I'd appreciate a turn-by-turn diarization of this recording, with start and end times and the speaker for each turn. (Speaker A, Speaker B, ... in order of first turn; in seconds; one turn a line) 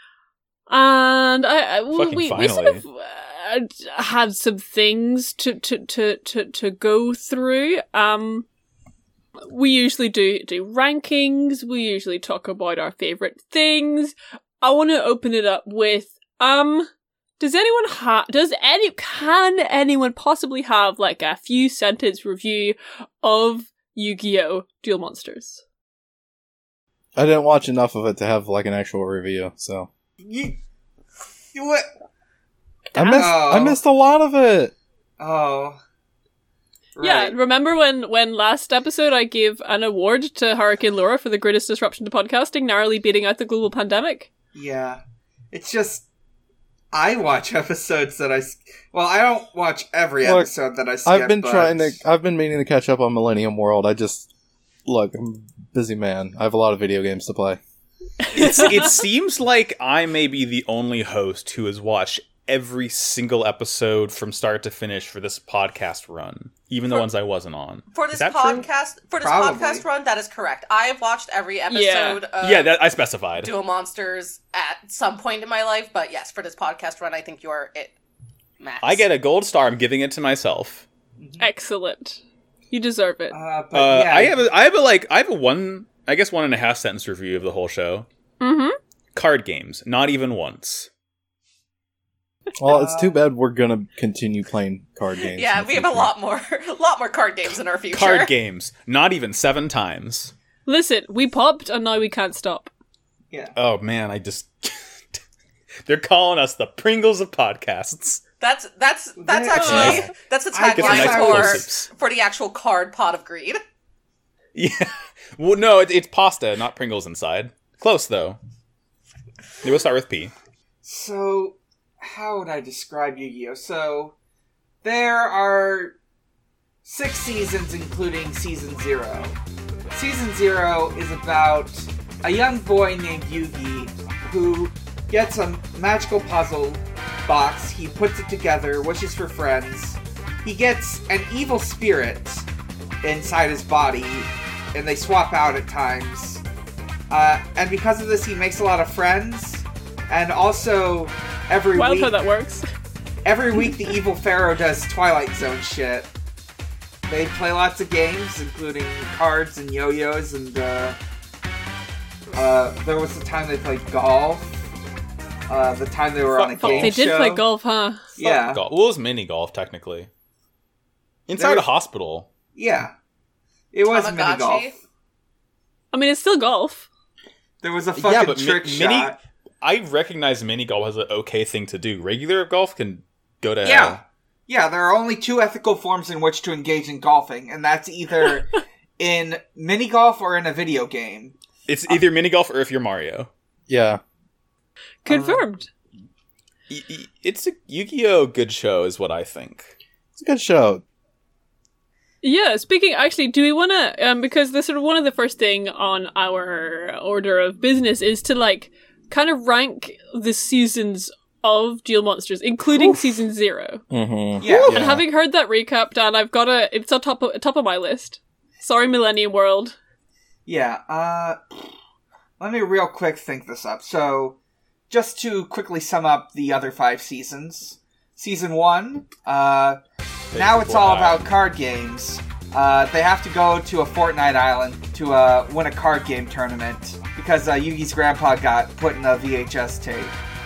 Speaker A: 0.7-8.4
Speaker B: 1.9-2.8
Speaker A: 9.5-25.6
Speaker C: 27.1-29.9
Speaker D: 30.2-30.6
Speaker D: 31.5-31.9
Speaker C: 32.9-34.7
Speaker D: 33.1-33.8
Speaker D: 35.2-35.8
Speaker D: 37.0-37.3
Speaker A: 37.0-44.3
Speaker D: 44.5-45.0
Speaker D: 45.5-46.0
Speaker D: 46.9-52.0
Speaker C: 50.2-50.5
Speaker C: 51.0-54.3
Speaker C: 54.9-57.6
Speaker A: 58.3-58.9
Speaker B: 58.3-68.6
Speaker E: 67.9-72.7
Speaker D: 69.2-69.8
Speaker A: 71.7-72.2
Speaker B: 72.4-73.5
Speaker E: 73.4-77.9
Speaker E: 78.6-79.0
Speaker B: 78.8-80.8
Speaker D: 81.2-81.5
Speaker A: 81.4-82.2
Speaker A: 82.7-83.3
Speaker D: 83.3-84.5
Speaker B: 83.7-88.1
Speaker A: 88.4-88.8
Speaker B: 89.1-90.9
Speaker C: 92.6-96.1
Speaker D: 92.6-93.2
Speaker E: 95.3-98.3
Speaker B: 97.9-100.3
Speaker A: 100.7-102.7
Speaker B: 103.5-105.2
Speaker B: 105.8-108.2
Speaker E: 108.4-113.6
Speaker D: 109.2-111.7
Speaker A: 109.6-109.9
Speaker B: 109.6-110.1
Speaker B: 110.7-111.9
Speaker B: 114.5-118.4
Speaker B: 119.6-120.3
Speaker D: 120.8-124.1
Speaker D: 124.8-126.0
Speaker D: 126.8-129.4
Speaker D: 129.9-142.4
Speaker D: 143.0-146.4
Speaker D: 147.1-152.1
Speaker A: 151.7-152.6
Speaker D: 153.2-156.1
Speaker D: 157.1-161.0
Speaker D: 162.3-164.5
Speaker D: 165.5-167.4
Speaker B: 166.2-167.0
Speaker A: 166.6-168.0
Speaker D: 168.2-168.6
Speaker B: 168.2-170.1
Speaker B: 171.3-172.3
Speaker D: 171.4-171.6
Speaker D: 172.5-172.9
Speaker D: 173.7-174.7
Speaker E: 173.9-174.7
Speaker A: 175.9-176.8
Speaker D: 177.6-179.2
Speaker B: 178.0-184.0
Speaker D: 183.6-191.3
Speaker B: 191.7-193.3
Speaker C: 193.7-194.0
Speaker A: 195.0-195.7
Speaker D: 195.1-195.4
Speaker B: 196.7-199.7
Speaker C: 200.2-200.8
Speaker A: 202.2-213.8
Speaker C: 213.9-215.0
Speaker D: 214.4-214.8
Speaker A: 214.4-219.7
Speaker D: 220.4-221.4
Speaker D: 222.4-224.4
Speaker D: 224.9-229.8
Speaker B: 230.3-231.2
Speaker D: 230.3-240.1